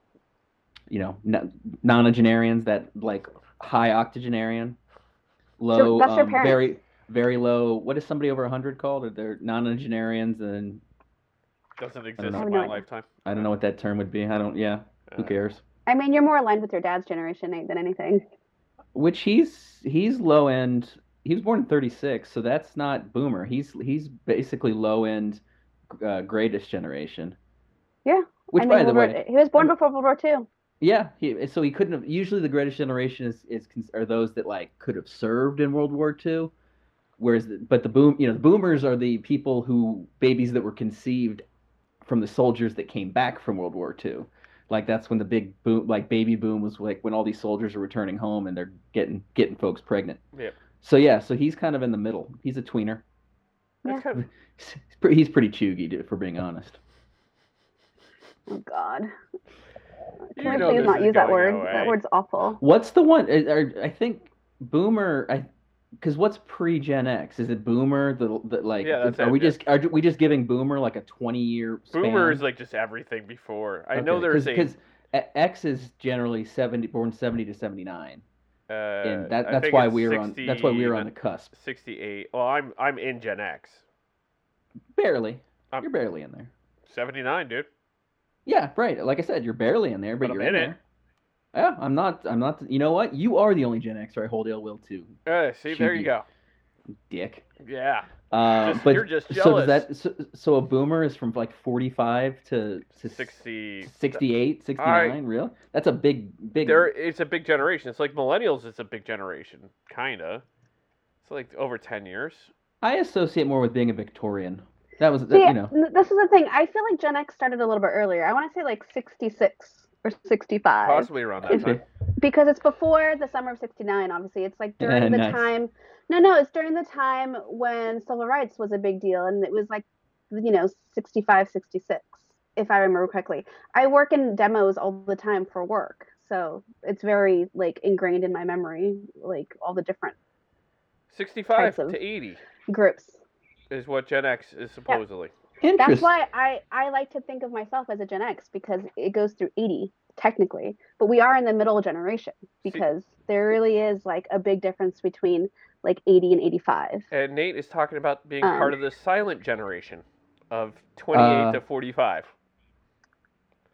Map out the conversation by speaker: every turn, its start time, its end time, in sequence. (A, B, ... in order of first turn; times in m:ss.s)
0:00.9-0:04.8 A
0:05.6-0:10.8 A
0:05.7-0:06.7 B
0:11.8-0:13.4 C
0:12.2-0:12.6 A
0:12.4-0:12.8 B
0:13.2-0:15.6 A
0:15.1-0:15.4 C
0:15.9-0:18.3 B
0:18.9-0:27.4 A
0:28.0-0:30.5 B
0:28.5-0:29.7 A
0:30.8-0:36.5 A
0:37.2-0:41.4 A
0:42.0-0:50.2 A
0:50.8-0:53.0 A
0:53.8-0:54.2 C
0:54.2-0:56.8 A
0:58.5-0:59.1 B
1:00.3-1:02.6 B
1:00.4-1:02.0 C
1:00.4-1:01.0 A
1:02.6-1:05.5 A
1:06.0-1:12.4 A
1:08.8-1:09.6 C
1:11.9-1:14.7 C
1:13.9-1:18.2 A
1:18.7-1:23.8 C
1:19.0-1:21.5 A
1:25.0-1:26.5 A
1:26.9-1:27.7 C
1:28.5-1:30.8 A
1:30.2-1:30.8 C
1:31.5-1:35.2 A
1:35.3-1:36.2 C
1:35.7-1:36.1 A
1:37.1-1:37.4 A
1:37.6-1:39.9 C
1:38.3-1:46.9 A
1:43.0-1:44.2 C
1:44.8-1:45.2 C
1:46.6-1:50.4 C
1:51.2-1:52.5 C
1:52.8-1:55.7 A
1:55.3-2:20.2 B
2:00.8-2:01.8 C
2:01.5-2:01.8 A
2:04.8-2:05.5 A
2:21.1-2:22.4 C
2:21.5-2:22.0 B
2:22.7-2:23.2 B
2:23.7-2:25.3 C
2:25.6-2:26.2 A
2:25.8-2:37.1 B
2:37.1-2:42.3 C
2:38.4-2:38.7 B
2:41.1-2:41.6 A